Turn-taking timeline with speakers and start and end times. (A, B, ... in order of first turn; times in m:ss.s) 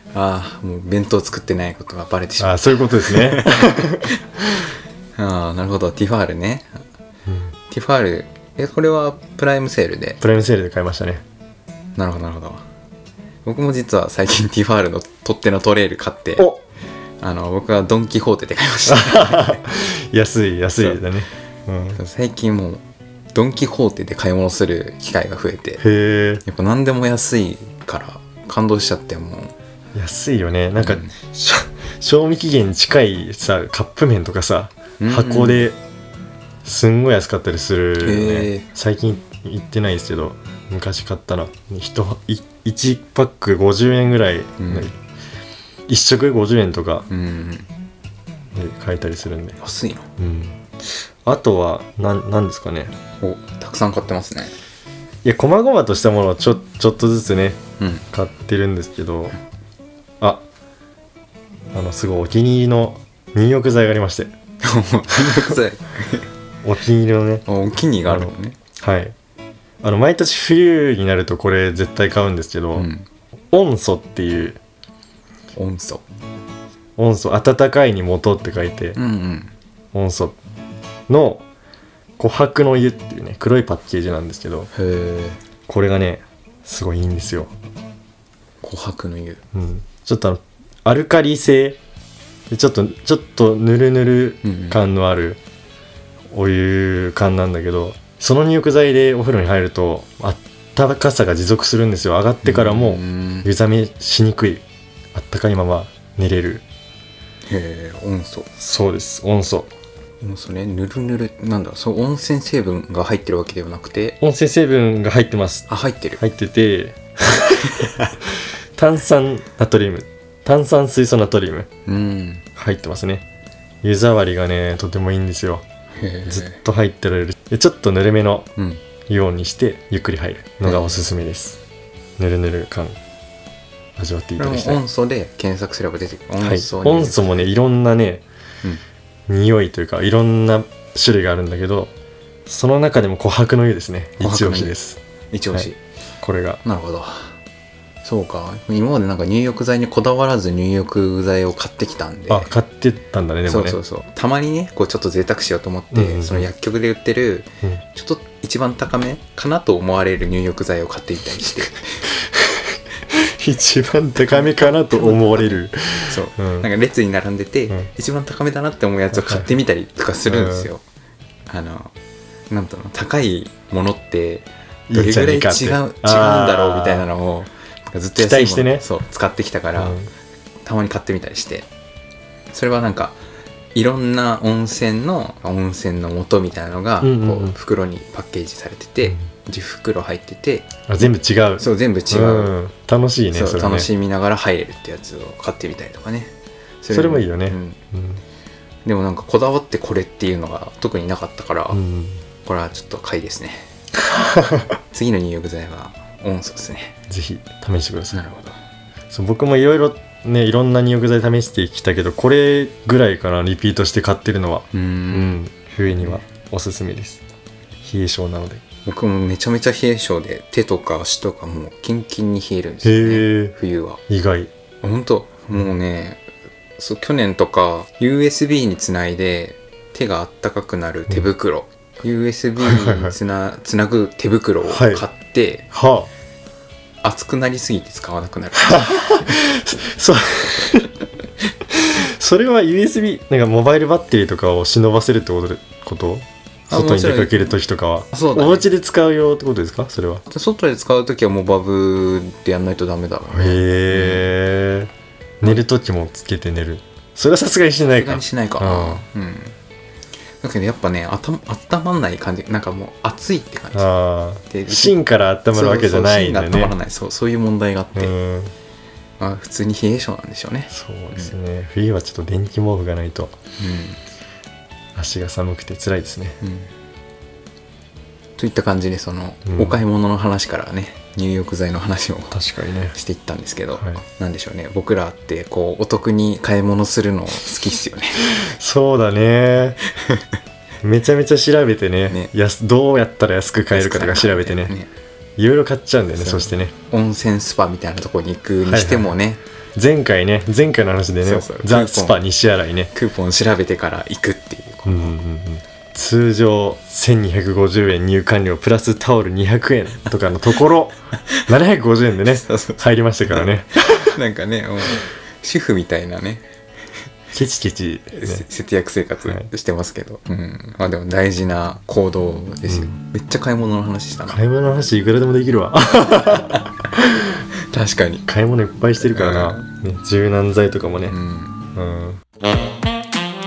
0:00.1-0:04.1 A
0:02.4-0:04.6 B
0:05.2-0:06.8 A
0:07.7-0:10.2 A
0:10.2-0:11.2 B
0:12.0-0:12.6 A
0:13.4-0:16.5 A
0:17.2-0:19.6 A
0:18.9-0:22.0 B
0:22.0-0:22.8 A
0:23.3-0:25.8 A
0:25.8-0:26.4 B
0:26.4-0:29.5 A
0:29.9-0:35.8 B
0:30.8-0:31.1 A
0:35.0-0:35.7 A
0:36.6-0:45.0 B
0:38.0-0:38.7 A
0:44.6-0:44.9 A
0:45.9-0:47.0 B
0:47.1-0:47.7 A
0:48.6-0:49.6 B
0:49.6-0:50.1 A
0:50.2-0:50.6 B
0:51.2-0:52.9 B
0:53.2-0:54.6 A
0:55.2-0:57.6 B
0:57.8-0:58.0 A
0:58.1-0:59.4 B
1:01.7-1:04.3 B
1:04.6-1:06.3 A
1:06.6-1:07.4 B
1:07.5-1:08.6 A
1:08.1-1:09.1 B
1:09.8-1:12.9 B
1:12.8-1:13.1 A
1:13.5-1:14.6 B
1:15.6-1:16.0 A
1:17.0-1:19.0 B
1:19.0-1:19.5 A
1:19.9-1:20.4 B
1:21.1-1:21.4 B
1:22.2-1:24.7 B
1:24.7-1:25.4 A
1:25.7-1:27.5 B
1:28.6-1:29.4 A
1:29.5-1:31.8 B
1:32.5-1:35.4 B
1:34.4-1:34.8 A
1:36.3-1:46.6 B
1:42.4-1:43.5 A
1:47.5-1:48.5 A
1:48.6-1:49.7 B
1:50.2-1:54.2 A
1:54.2-2:01.7 B
1:55.7-1:56.2 A
1:57.7-1:58.1 A
2:01.9-2:02.4 A
2:02.6-2:03.2 B
2:03.8-2:05.6 B
2:06.0-2:06.6 A
2:06.3-2:08.5 B
2:08.6-2:08.8 A
2:09.1-2:11.6 B
2:10.6-2:11.0 A
2:12.2-2:13.0 B
2:14.0-2:14.8 B
2:14.4-2:17.3 A
2:16.4-2:18.2 B
2:19.3-2:21.9 B
2:22.5-2:25.0 B
2:24.2-2:24.8 A
2:25.3-2:25.8 A
2:26.2-2:26.6 B
2:26.6-2:27.4 A
2:28.0-2:32.5 A
2:32.3-2:33.8 B
2:33.5-2:42.1 A
2:35.9-2:36.5 B
2:42.1-2:46.7 B
2:44.2-2:45.5 A
2:46.1-2:50.8 A
2:49.1-2:49.5 B
2:50.3-2:50.7 B
2:51.5-2:51.9 A
2:52.5-3:00.0 A
2:54.9-2:57.0 B
2:58.2-2:58.8 B
2:59.8-3:00.1 B
3:00.6-3:01.7 A
3:02.5-3:03.2 A
3:03.8-3:10.7 A
3:07.0-3:07.6 B
3:10.9-3:13.9 B
3:11.6-3:12.5 A
3:13.3-3:17.8 A
3:16.9-3:18.2 B
3:18.8-3:21.8 A
3:21.7-3:22.2 B
3:22.4-3:23.7 A
3:24.1-3:24.7 B
3:24.9-3:27.0 A
3:27.1-3:28.2 B
3:28.1-3:28.6 A
3:29.1-3:37.2 B
3:34.7-3:35.4 A
3:36.0-3:36.2 A
3:37.8-3:38.6 B
3:38.8-3:44.0 A
3:42.8-3:43.5 B
3:44.1-3:44.5 B
3:44.8-3:46.2 A
3:46.8-3:55.7 A
3:52.6-3:53.2 B
3:54.7-3:55.0 B
3:55.7-3:56.1 B
3:57.0-3:59.4 A
3:58.6-4:01.0 B
4:01.7-4:10.2 B
4:06.7-4:07.6 A
4:08.1-4:08.6 A
4:10.3-4:14.3 A
4:13.3-4:19.0 B
4:17.9-4:19.6 A
4:20.4-4:23.9 A
4:23.7-4:26.8 B
4:24.5-4:25.0 A
4:25.5-4:28.1 A
4:28.0-4:28.5 B
4:29.2-4:31.3 A
4:30.7-4:33.4 B
4:33.6-4:34.0 A
4:35.0-4:36.4 B
4:36.4-4:36.7 A
4:38.4-4:42.4 A
4:39.5-4:39.8 B
4:42.3-4:43.0 B
4:42.9-4:48.4 A
4:48.3-4:49.8 B
4:50.8-4:54.7 B
4:53.7-4:54.9 A
4:55.4-4:56.7 B
4:56.2-4:59.4 A
4:58.6-4:59.1 B
4:59.8-5:02.9 B
5:01.2-5:02.2 A
5:02.9-5:05.2 A
5:04.8-5:14.2 B
5:12.3-5:16.4 A
5:17.3-5:18.4 B
5:18.1-5:24.4 A
5:24.3-5:27.4 B
5:26.4-5:26.7 A
5:27.7-5:28.2 A
5:28.3-5:31.2 B
5:29.0-5:29.7 A
5:31.1-5:31.7 A
5:31.8-5:32.2 B